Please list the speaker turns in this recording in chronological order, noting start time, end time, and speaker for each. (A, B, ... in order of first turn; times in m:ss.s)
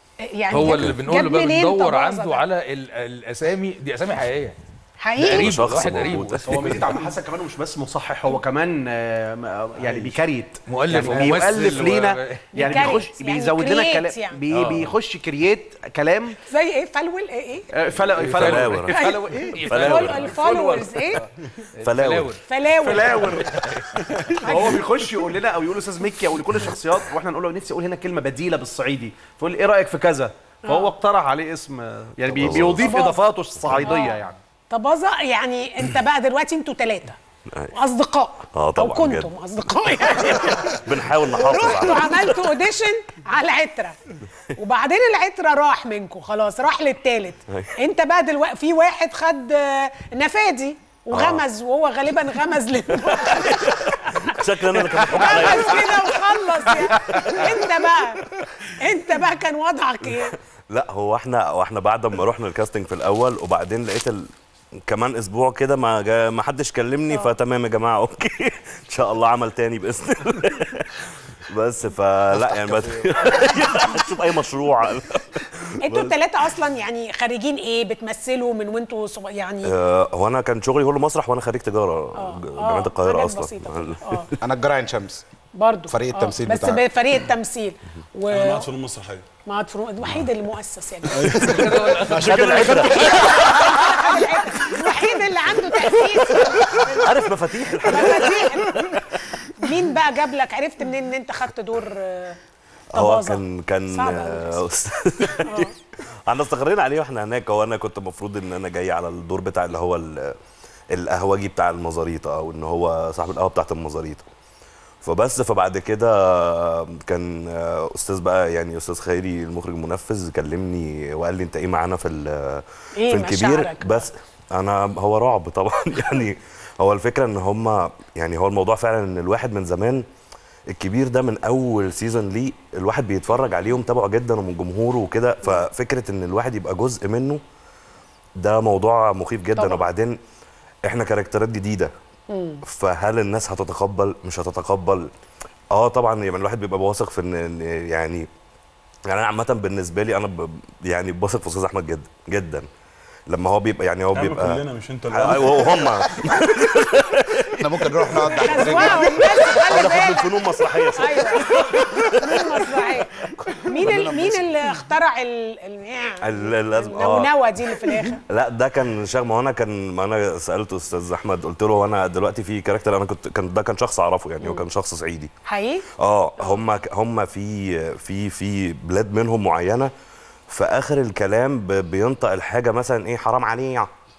0:00.3-0:02.4 A
0:00.5-0:04.6 B
0:00.5-0:00.9 C
0:05.0-0:06.2 A
0:05.2-0:07.0 B
0:05.2-0:06.8 C
0:06.4-0:16.4 D
0:10.6-0:13.0 B
0:12.5-0:14.4 A
0:14.5-0:14.9 B
0:16.5-0:17.7 A
0:17.7-0:20.9 D
0:18.1-0:20.4 B
0:18.4-0:19.0 C
0:18.9-0:19.2 A
0:19.6-0:20.3 C
0:19.7-0:21.2 A
0:21.1-0:22.4 B
0:21.8-0:22.3 C
0:22.4-0:23.4 A
0:22.8-0:23.8 D
0:23.3-0:24.5 B
0:24.3-0:24.8 A
0:24.4-0:34.4 D
0:32.3-0:33.0 C
0:32.5-0:33.2 A
0:33.8-0:37.2 A
0:37.7-0:44.0 A
0:38.5-0:39.3 C
0:40.0-0:42.4 C
0:44.5-0:54.4 A
0:51.1-0:51.4 C
0:53.0-0:57.9 C
0:55.1-1:00.4 A
1:00.7-1:04.3 C
1:04.9-1:16.2 C
1:15.8-1:19.7 A
1:19.6-1:24.3 C
1:22.2-1:24.3 A
1:24.4-1:25.2 E
1:25.5-1:28.7 A
1:25.9-1:26.8 E
1:28.3-1:29.2 F
1:29.4-1:31.4 A
1:31.1-1:33.4 F
1:31.3-1:33.1 B
1:32.0-1:34.2 C
1:32.7-1:37.1 A
1:36.1-1:39.4 C
1:37.8-1:38.8 A
1:39.6-1:42.4 A
1:42.9-1:44.6 A
1:42.9-1:45.7 C
1:45.4-1:45.7 A
1:46.3-1:50.3 C
1:50.9-1:54.2 C
1:55.0-2:10.0 C
2:03.0-2:04.1 A
2:10.7-2:17.4 C
2:18.4-2:20.2 C
2:19.6-2:19.8 A
2:20.8-2:21.9 C
2:22.3-2:22.6 A
2:22.6-2:25.1 C
2:25.7-2:28.3 C
2:29.1-2:32.6 C
2:33.3-2:42.9 C
2:34.1-2:35.9 F
2:37.6-2:39.4 E
2:38.3-2:40.3 A
2:40.9-2:48.2 A
2:43.6-2:44.6 E
2:46.2-2:47.3 C
2:48.3-2:55.3 C
2:55.4-2:55.8 A
2:56.0-2:59.9 C
3:00.5-3:03.9 C